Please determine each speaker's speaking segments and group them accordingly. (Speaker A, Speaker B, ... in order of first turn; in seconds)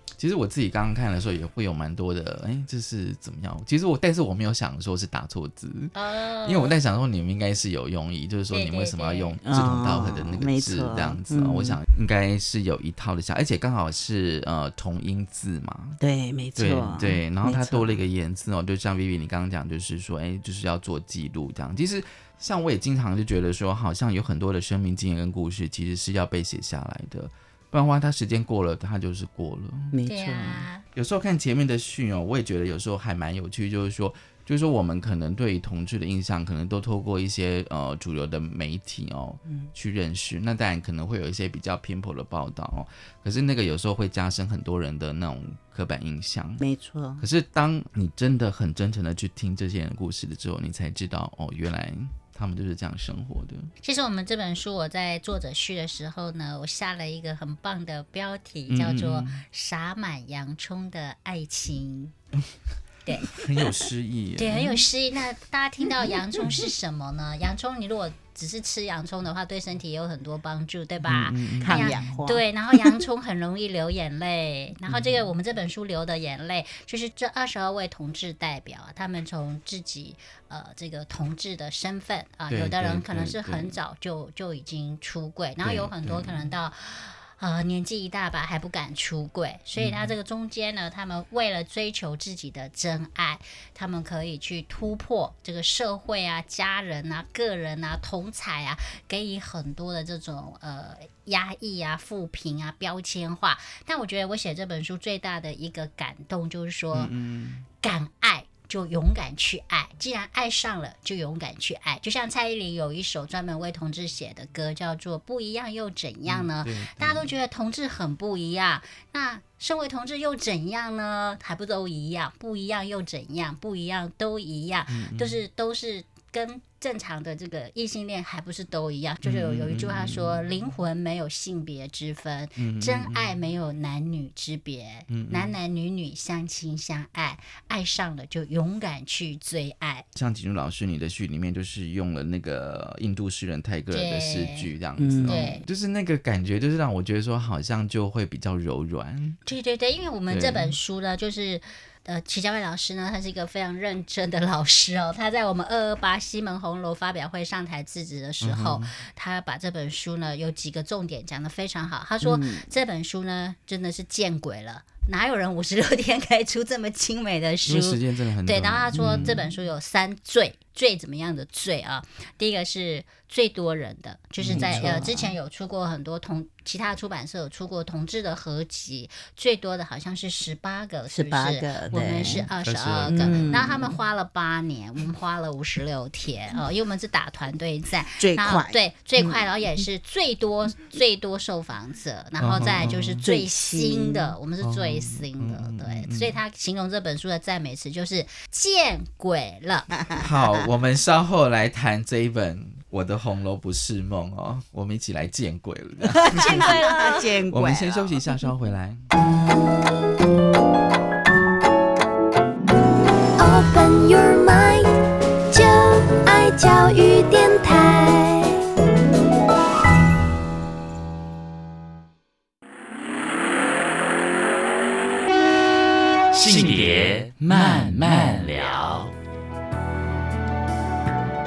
Speaker A: 0.2-5.9, 6.5-16.0, 16.6-29.9, 30.9-46.6, 47.2-53.7, 58.7-59.4, 63.3-64.8, 71.0-72.0, 74.9-75.3, 82.5-83.8, 85.6-86.5, 89.8-90.1, 106.9-107.7, 116.3-117.3, 124.9-125.4, 129.2-130.4, 132.6-133.4, 135.1-135.5, 140.2-149.4, 150.3-150.8, 158.4-158.9, 167.7-169.4, 174.4-175.1, 182.3-183.7, 192.4-193.2, 194.6-196.4, 200.1-206.7, 207.5-209.1, 226.5-226.9, 227.4-228.4
Speaker B: 6.0-6.8, 8.5-9.3, 30.1-30.8, 53.8-62.1, 63.1-63.4, 64.4-107.1, 107.8-140.1, 143.9-144.7, 145.3-145.6, 149.5-199.9, 206.2-207.2
Speaker C: 9.4-11.8, 16.0-18.0, 29.9-30.7, 46.6-47.2, 71.6-72.4, 145.0-145.5, 162.2-162.7, 169.0-169.4, 174.5-175.3, 181.1-182.4, 183.1-183.9, 188.2-189.4, 193.2-194.4, 206.2-208.2
Speaker D: 213.4-214.9, 215.5-218.4
Speaker E: 226.3-229.1